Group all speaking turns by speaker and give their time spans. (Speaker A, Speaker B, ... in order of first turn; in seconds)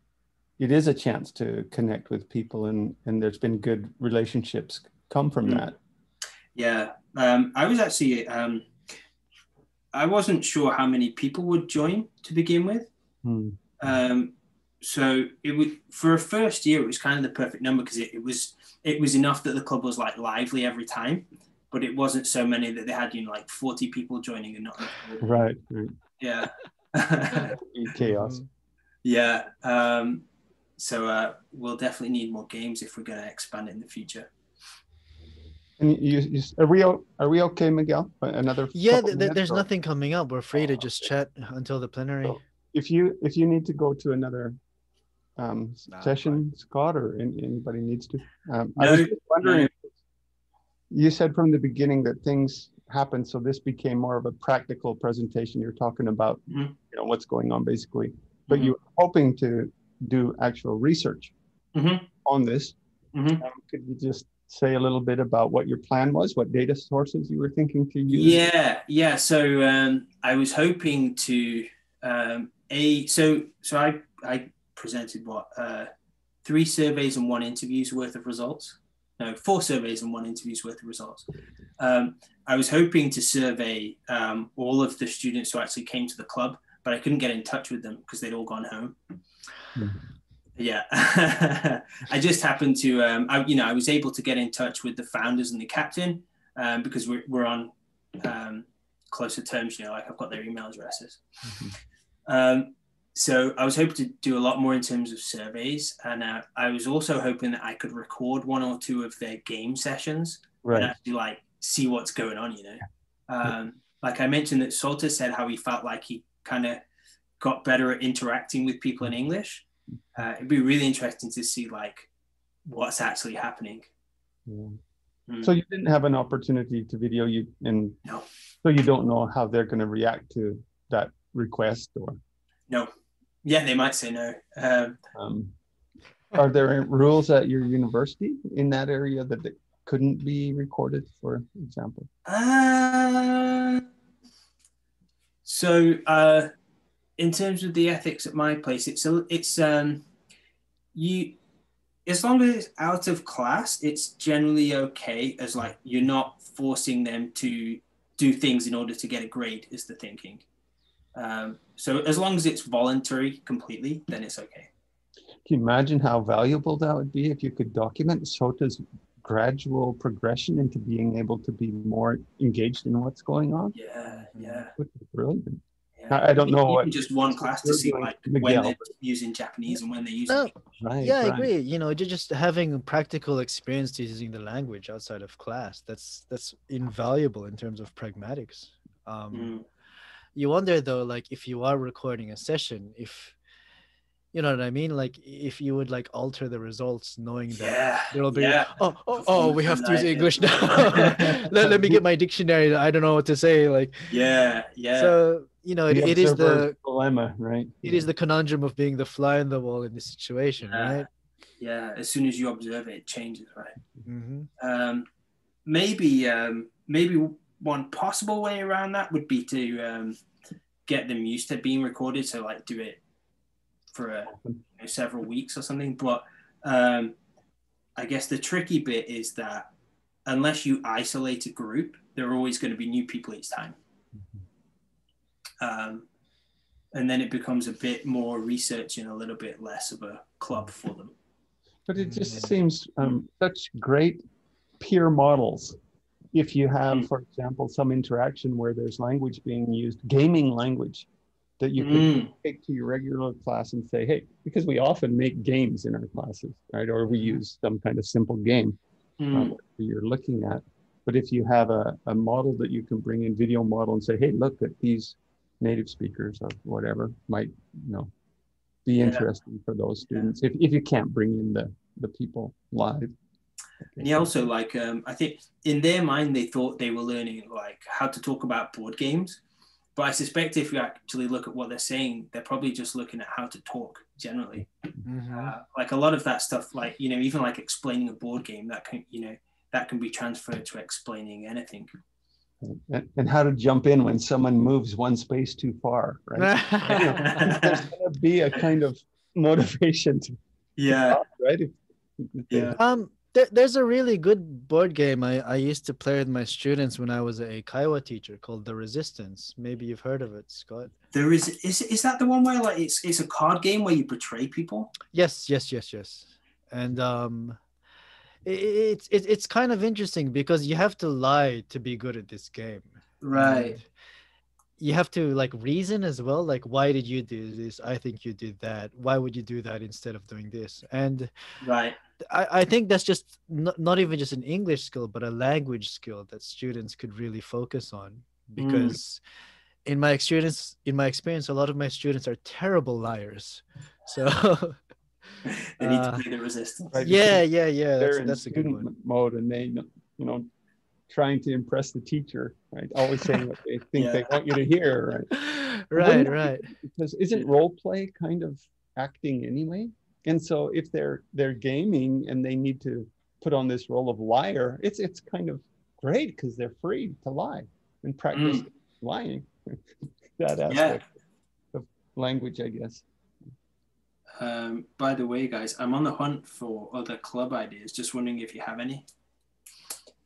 Speaker A: 0.6-5.8, 13.2-13.6, 25.2-25.9, 27.5-28.4, 35.8-39.6, 42.2-44.5, 45.4-49.9, 50.9-61.3, 62.2-62.8, 63.4-68.4, 110.6-110.9, 124.5-124.8, 125.4-128.0, 128.6-132.2, 135.1-135.5, 136.3-142.1, 165.4-173.8, 174.8-178.9, 180.8-181.5, 201.6-202.0, 205.9-208.1, 224.3-224.6, 241.8-244.2, 244.8-245.8, 246.3-251.1, 251.6-258.8, 259.3-268.1, 268.9-273.1, 292.6-300.4, 300.9-302.7, 346.9-347.4, 348.0-350.5, 351.1-355.3, 355.9-369.8, 370.4-371.0, 371.7-373.0
Speaker B: 6.5-8.7, 9.9-12.9, 13.8-25.4, 26.2-27.6, 29.0-34.3, 48.8-49.7, 56.5-56.7, 58.5-58.7, 61.7-62.1, 63.1-63.4, 68.1-75.9, 76.4-81.2, 81.8-89.0, 90.6-101.2, 102.3-116.8, 117.4-122.1, 122.7-123.9, 133.4-135.0, 142.2-143.8, 145.4-146.5, 147.2-150.0, 150.9-151.4, 152.1-160.4, 161.2-164.7, 173.7-174.7, 176.0-180.5, 189.3-189.6, 197.5-201.4, 204.1-205.1, 210.7-211.1, 211.6-213.8, 214.6-215.1, 215.6-220.2, 220.8-223.0, 223.9-227.1, 228.0-229.7, 230.2-233.8, 235.6-236.1, 236.9-241.1, 251.8-252.3, 259.2-259.6, 269.0-269.2, 270.1-270.3, 274.0-279.4, 279.9-284.7, 285.3-291.9, 296.9-297.8, 300.8-301.2, 302.5-302.8, 311.1-314.9, 323.2-323.8, 331.6-331.9, 338.6-339.0, 345.4-346.9, 353.9-354.3, 368.3-368.6, 370.7-371.0, 374.4-379.1
Speaker C: 28.0-28.4, 38.7-42.4, 45.9-46.4, 174.3-174.6, 181.0-189.5, 190.3-193.4, 194.3-204.1, 204.9-206.7, 207.8-211.1, 214.0-214.5, 242.0-242.5, 257.1-257.4, 285.0-285.5, 296.4-297.4, 302.8-310.9, 315.1-317.6, 318.4-323.9, 324.8-331.3, 332.2-339.2, 339.9-344.8, 345.8-346.2, 347.0-348.9, 355.3-356.7